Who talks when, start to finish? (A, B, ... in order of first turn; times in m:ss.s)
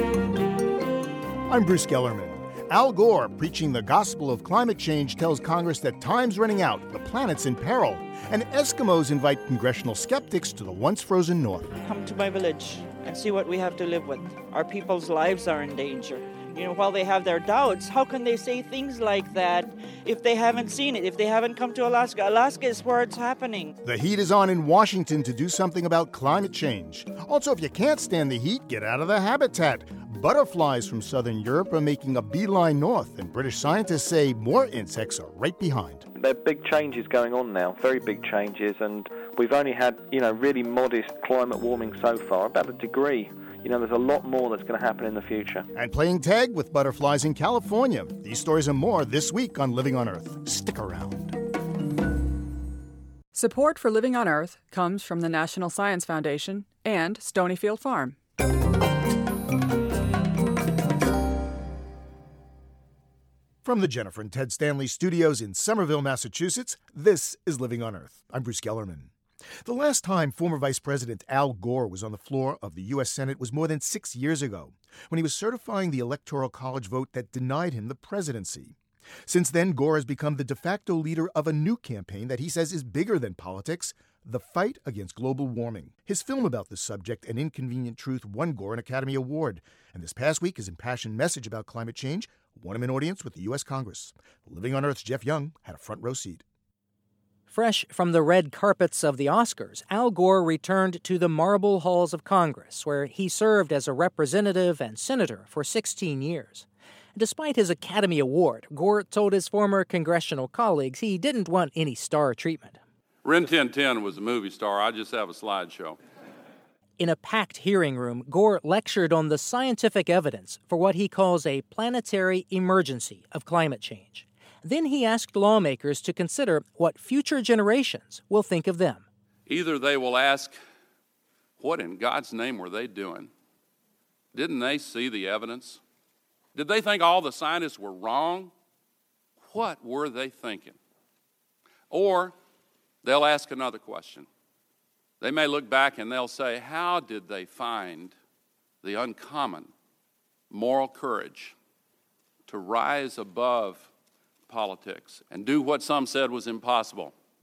0:01.4-0:11.7 A
0:11.8-0:23.7 B
0:23.8-0:36.0 A
0:36.2-0:45.7 C
0:45.7-0:51.3 A
0:53.3-0:58.2 D
1:03.6-1:36.4 A
1:37.5-1:52.8 E
1:53.2-1:56.0 F
1:57.0-2:09.0 E
2:09.5-2:10.6 F
2:11.6-2:13.3 F
2:14.3-2:15.8 F
2:16.5-2:18.5 F
2:19.5-2:20.8 F
2:21.9-2:22.3 F
2:23.0-2:24.3 F
2:25.2-2:28.1 F
2:28.8-2:29.7 F
2:30.5-2:31.5 F
2:32.5-2:33.9 F
2:34.5-2:37.1 F